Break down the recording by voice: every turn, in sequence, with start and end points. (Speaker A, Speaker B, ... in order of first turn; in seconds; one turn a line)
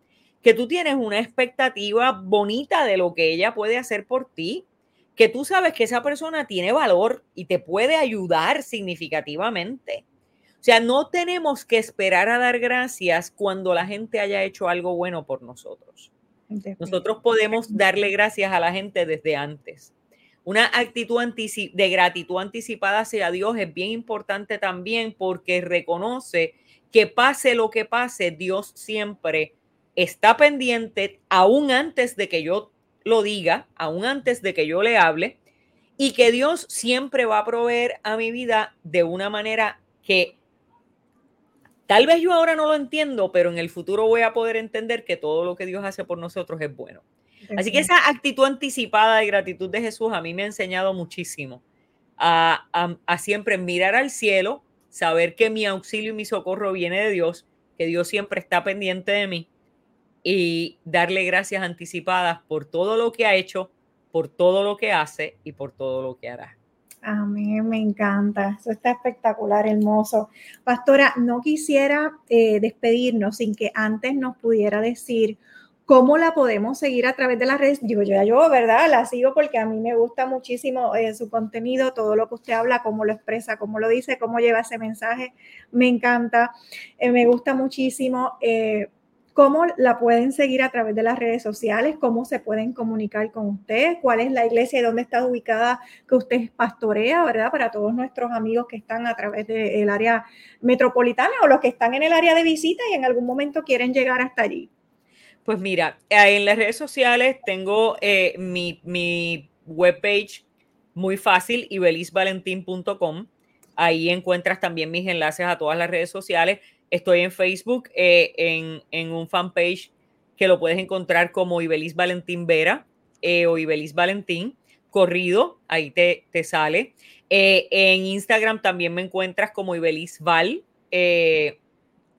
Speaker A: 0.4-4.7
Speaker A: 5.2-10.0
Speaker A: 10.6-16.1
Speaker B: 16.5-17.1
Speaker A: 16.8-19.9
Speaker A: 20.4-35.4
Speaker A: 36.0-40.4
Speaker A: 41.9-47.0
Speaker B: 47.5-47.9
Speaker A: 47.6-51.6
Speaker A: 52.2-59.5
Speaker A: 60.2-66.6
Speaker B: 67.0-104.7
Speaker A: 105.5-110.4
Speaker A: 111.0-131.6